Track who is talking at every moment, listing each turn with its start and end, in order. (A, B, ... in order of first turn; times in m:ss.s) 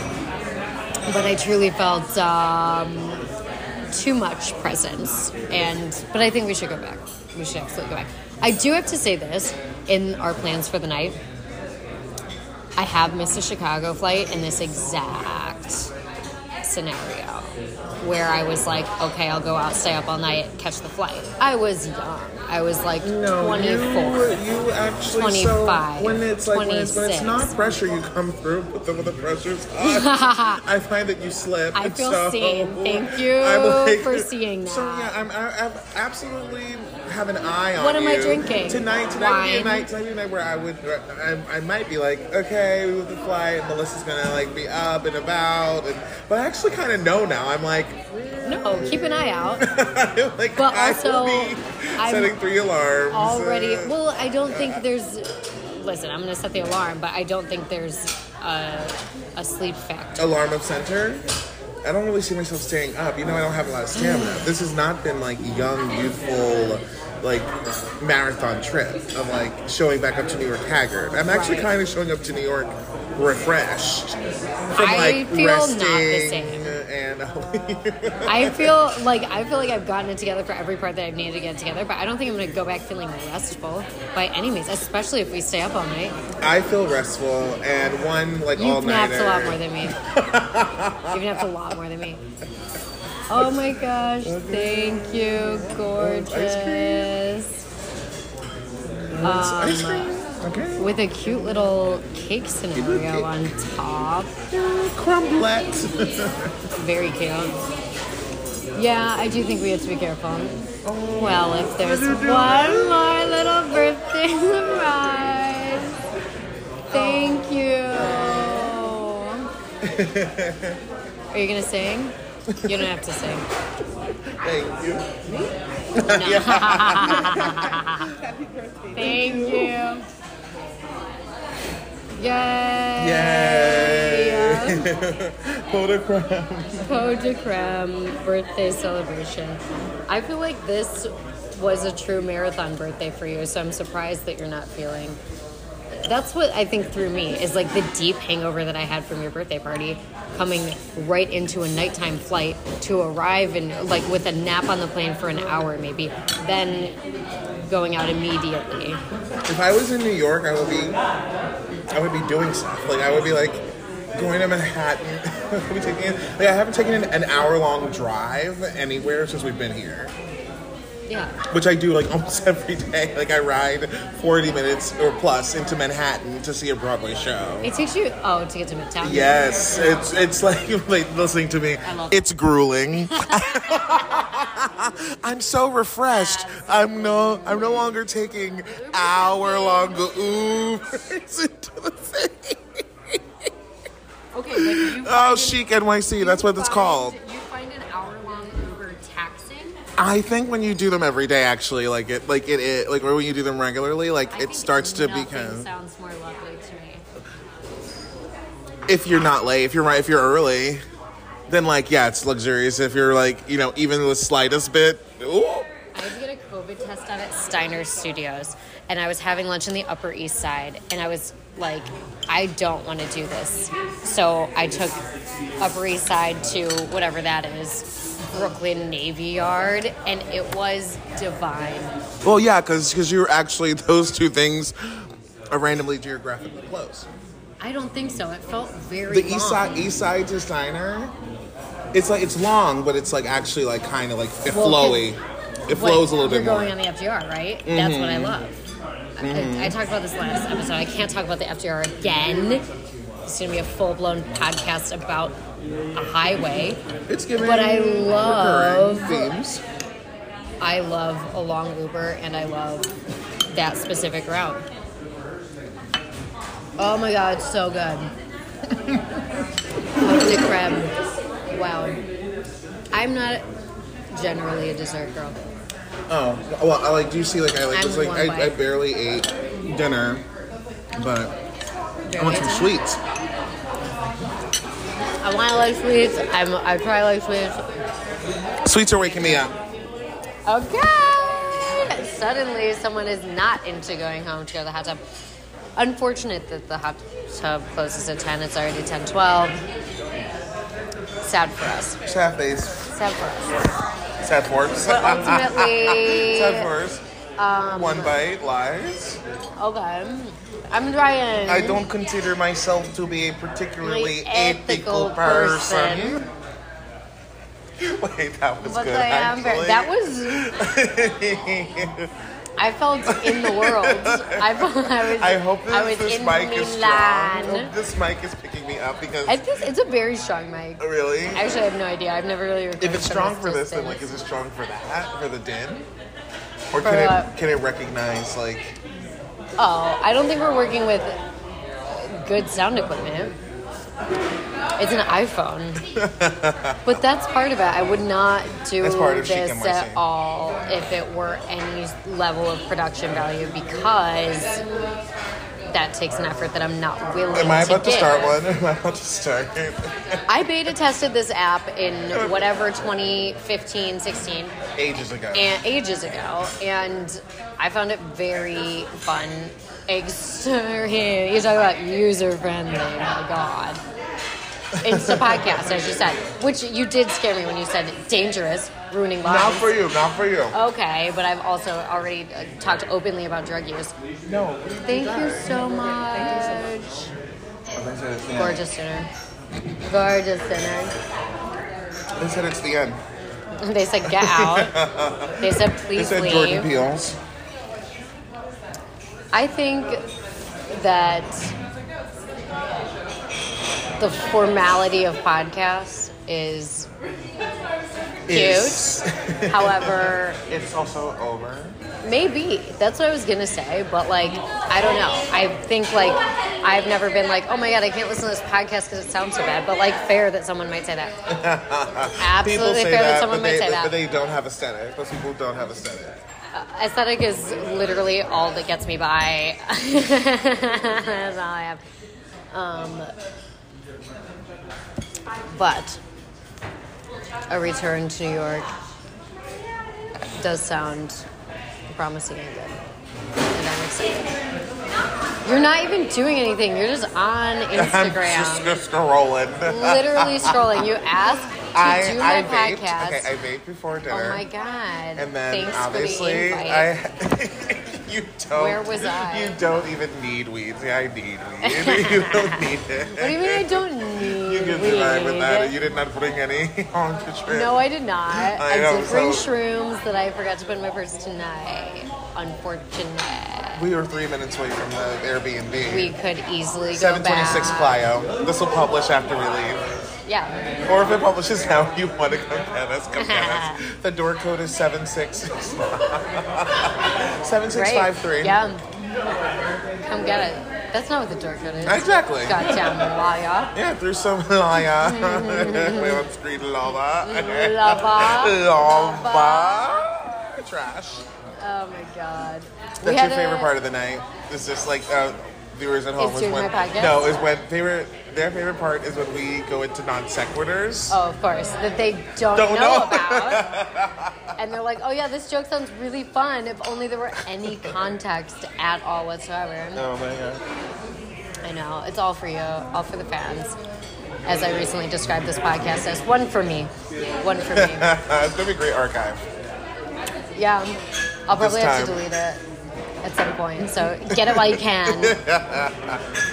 0:01.1-0:03.2 A
0:03.9-0:11.2 A
0:12.8-0:15.9 A
0:16.6-0:17.5 A
0:18.0-0:24.3 A
0:23.0-0:54.0 B
0:25.2-0:27.5 A
0:29.8-0:30.6 A
0:31.7-0:35.2 A
0:37.8-0:39.9 A
0:48.4-0:49.7 A
0:50.6-0:52.4 A
0:53.1-1:00.3 A
0:54.5-0:54.8 B
1:00.2-1:01.3 B
1:01.8-1:14.2 B
1:04.0-1:04.4 A
1:11.3-1:11.7 A
1:14.7-1:18.8 B
1:14.8-1:16.7 A
1:18.3-1:26.2 A
1:26.4-1:31.4 B
1:28.6-1:30.0 A
1:31.1-1:32.2 A
1:33.3-1:37.6 A
1:34.2-1:37.1 B
1:39.0-1:40.9 B
1:39.2-1:40.1 A
1:40.8-1:44.4 A
1:42.8-1:43.4 B
1:44.5-1:46.5 B
1:46.8-1:47.6 A
1:48.8-1:50.6 A
1:50.8-1:53.3 B
1:51.2-1:56.0 A
1:56.9-1:57.4 B
1:56.9-1:59.5 A
1:58.0-1:58.7 B
1:59.8-2:00.8 B
2:01.3-2:03.5 A
2:02.5-2:03.0 B
2:04.4-2:05.1 B
2:06.0-2:07.8 B
2:06.1-2:08.1 A
2:07.1-2:09.8 C
2:09.0-2:10.1 A
2:12.2-2:14.9 A
2:13.0-2:16.9 B
2:16.8-2:25.2 A
2:26.0-2:37.0 A
2:37.6-2:39.0 A
2:39.5-2:41.0 B
2:41.9-2:43.6 B
2:44.1-2:50.1 B
2:51.1-2:51.4 A
2:51.5-2:57.7 B
2:57.6-2:59.5 A
2:59.0-3:13.5 B
3:01.8-3:02.2 A
3:03.1-3:04.2 A
3:06.1-3:07.0 A
3:08.7-3:10.1 A
3:14.3-3:19.8 A
3:14.5-3:17.2 B
3:20.0-3:25.7 B
3:24.3-3:27.0 A
3:28.9-3:30.8 B
3:31.5-3:35.7 B
3:35.9-3:45.0 A
3:45.6-3:52.0 A
3:52.2-3:57.1 B
3:57.6-3:59.9 A
3:59.1-4:01.1 B
4:01.9-4:06.8 B
4:04.5-4:05.1 A
4:05.7-4:08.6 A
4:07.6-4:08.4 B
4:09.2-4:12.7 A
4:09.2-4:09.8 B
4:13.3-4:15.4 A
4:16.0-4:16.8 A
4:17.1-4:19.6 B
4:17.4-4:19.3 A
4:20.6-4:22.9 A
4:23.5-4:24.6 A
4:26.8-4:28.1 A
4:28.7-4:29.2 B
4:30.0-4:30.9 A
4:31.5-4:32.0 A
4:32.9-4:33.4 A
4:34.1-4:35.4 A
4:36.1-4:40.3 B
4:37.7-4:38.6 A
4:41.0-4:41.4 B
4:42.1-4:42.7 A
4:42.2-4:43.0 B
4:45.2-4:47.7 A
4:48.6-4:49.6 B
4:50.5-4:55.0 A
4:55.8-4:59.6 A
5:01.2-5:02.0 A
5:02.0-5:02.9 B
5:02.9-5:03.7 A
5:04.2-5:07.0 B
5:04.8-5:06.7 A
5:07.4-5:08.2 A
5:07.7-5:09.2 B
5:09.6-5:11.8 A
5:11.5-5:16.3 B
5:13.8-5:16.2 A
5:17.8-5:22.1 B
5:18.6-5:20.5 A
5:22.6-5:27.7 A
5:23.1-5:29.4 B
5:29.3-5:34.0 A
5:30.8-5:31.5 B
5:32.8-5:35.9 B
5:36.7-5:38.8 B
5:36.8-5:37.3 A
5:39.6-5:41.2 A
5:41.9-5:43.4 A
5:44.8-5:45.8 A
5:45.9-5:47.0 B
5:46.9-5:54.6 A
5:48.8-5:50.0 B
5:55.7-5:58.4 A
5:57.3-6:00.5 B
6:00.3-6:04.6 A
6:02.1-6:02.5 B
6:04.8-6:05.5 B
6:05.3-6:13.8 A
6:14.8-6:15.8 B
6:14.8-6:19.8 A
6:19.2-6:20.6 B
6:20.5-6:24.0 A
6:24.3-6:26.6 B
6:24.8-6:27.1 A
6:27.8-6:28.6 B
6:28.4-6:29.1 A
6:29.8-6:31.0 A
6:32.2-6:33.0 B
6:33.6-6:34.8 A
6:34.0-6:37.2 B
6:35.4-6:36.7 A
6:39.3-6:40.1 A
6:40.7-6:41.5 A
6:44.0-6:46.9 A
6:48.3-6:51.8 B
6:48.3-6:50.4 A
6:52.0-7:01.2 A
7:01.3-7:06.2 B
7:02.2-7:03.9 A
7:06.5-7:11.8 A
7:12.5-7:13.1 A
7:15.5-7:16.0 A
7:17.5-7:18.7 A
7:20.4-7:21.3 A
7:21.9-7:22.8 A
7:23.5-7:24.4 A
7:25.4-7:28.8 A
7:27.8-7:30.8 B
7:29.6-7:33.3 A
7:31.6-7:34.5 B
7:34.1-7:36.9 A
7:35.2-7:47.8 B
7:38.6-7:39.6 A
7:41.6-7:42.6 A
7:43.2-7:45.7 A
7:47.5-7:53.8 A
7:48.3-7:49.5 B
7:53.8-7:56.1 B
7:55.9-7:58.0 A
7:56.9-7:59.8 B
8:00.3-8:00.6 A
8:00.8-8:08.6 B
8:03.2-8:03.8 A
8:07.7-8:08.8 A
8:10.0-8:13.7 A
8:11.8-8:13.1 B
8:13.7-8:21.3 B
8:15.0-8:16.2 A
8:17.2-8:20.1 A
8:21.6-8:23.7 A
8:23.0-8:31.2 B
8:26.2-8:27.3 A
8:31.1-8:33.7 A
8:32.5-8:34.5 B
8:34.6-8:40.0 A
8:37.6-8:38.0 B
8:40.0-8:40.6 B
8:41.6-8:43.8 A
8:44.5-8:48.1 A
8:47.7-8:49.4 B
8:50.6-8:52.6 A
8:51.5-8:52.2 B
8:53.2-8:55.4 A
8:54.3-8:56.2 B